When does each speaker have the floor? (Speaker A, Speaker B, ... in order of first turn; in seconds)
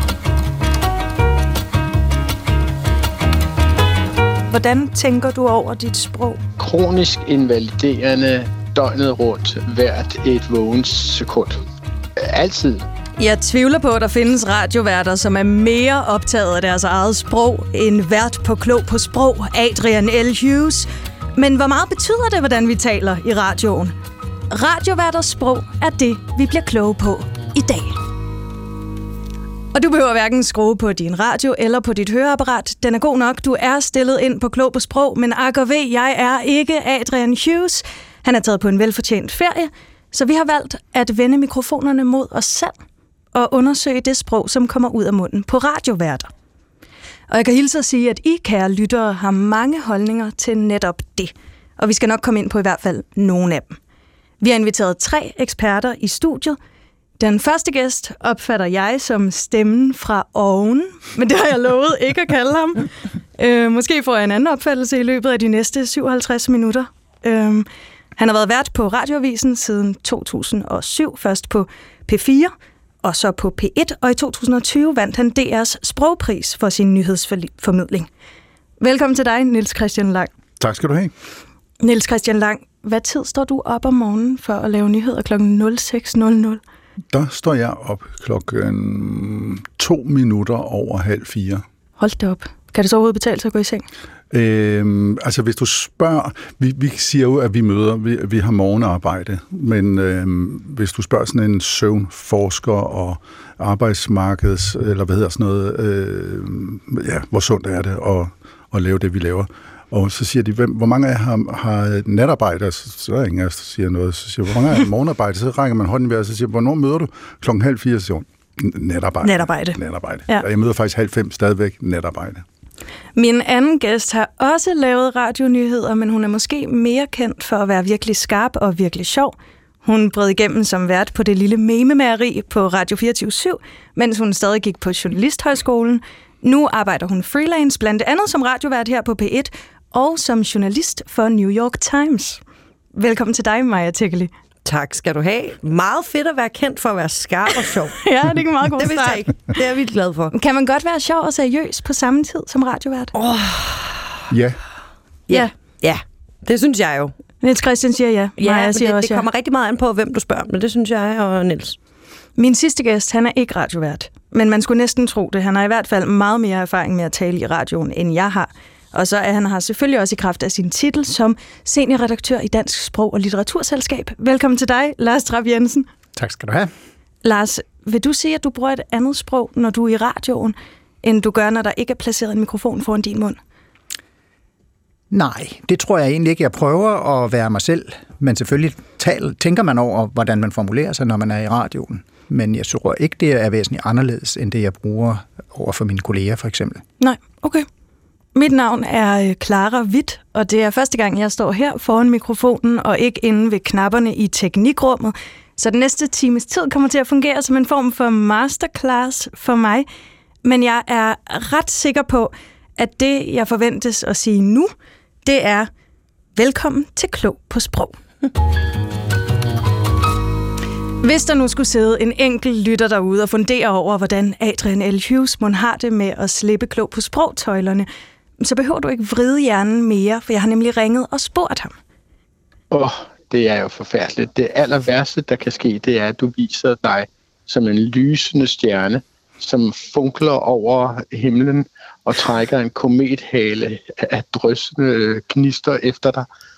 Speaker A: 4.5-6.4, 13.2-23.9, 24.5-28.0, 29.7-42.8, 43.3-46.3, 47.3-53.8, 54.4-56.6, 57.2-72.5, 73.0-78.1, 78.8-80.3, 81.8-86.6, 92.0-93.8, 119.2-120.5, 123.2-142.4, 142.9-144.3, 148.0-149.6, 150.3-153.1, 157.4-159.2, 162.4-175.9, 177.2-183.4, 197.0-197.7, 198.3-209.8, 210.4-214.7, 215.2-215.7, 216.3-217.9, 221.0-227.9, 228.4-231.7
Speaker B: 6.6-11.6, 12.2-12.8, 232.7-246.2
Speaker C: 80.6-81.1, 87.1-91.6, 94.3-122.4, 154.3-154.6
Speaker D: 144.6-148.0, 148.8-150.3, 153.1-154.2, 155.3-157.1, 158.4-161.8
Speaker E: 176.2-176.7, 185.1-196.8